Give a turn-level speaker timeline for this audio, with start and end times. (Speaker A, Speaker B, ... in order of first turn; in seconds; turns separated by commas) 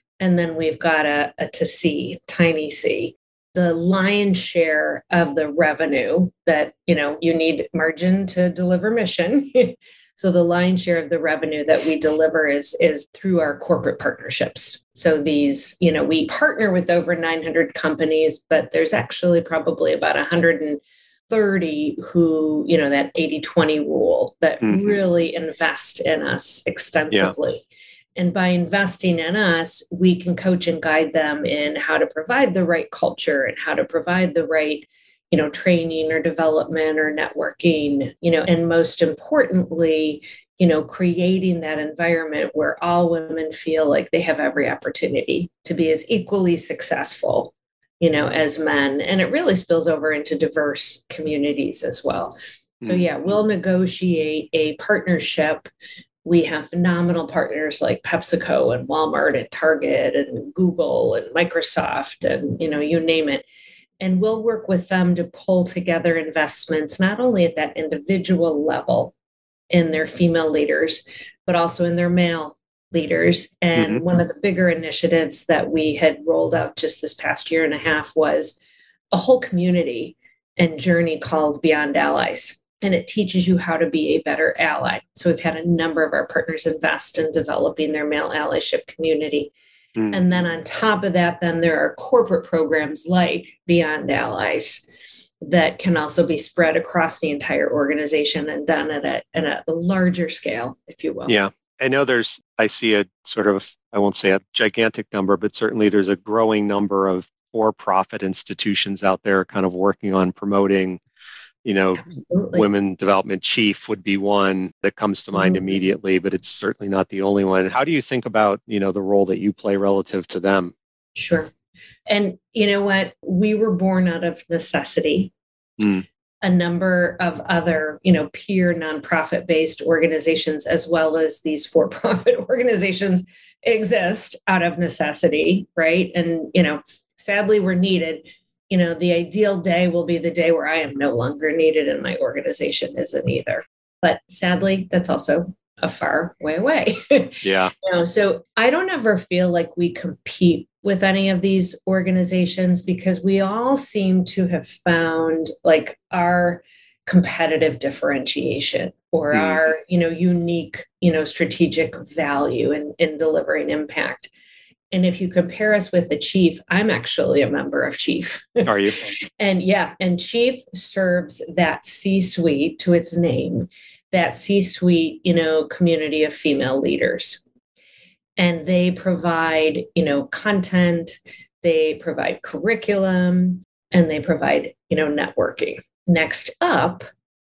Speaker A: 0.2-55.7, Speaker B: 24.6-25.0, Speaker B: 52.8-53.1, Speaker A: 56.2-63.4, Speaker A: 64.0-69.1, Speaker A: 69.7-78.6, Speaker B: 73.8-74.0, Speaker A: 79.1-89.5, Speaker B: 90.0-90.2, Speaker A: 90.1-94.8, Speaker A: 95.4-101.3, Speaker B: 101.3-111.0, Speaker B: 111.7-120.7, Speaker A: 112.0-112.7, Speaker A: 115.3-115.8, Speaker A: 121.2-121.5, Speaker A: 122.1-125.3, Speaker B: 125.8-126.0, Speaker A: 126.4-164.3, Speaker B: 147.4-147.7, Speaker B: 159.3-159.7, Speaker A: 164.9-168.7, Speaker B: 168.6-169.0, Speaker A: 169.4-177.4, Speaker A: 178.4-187.1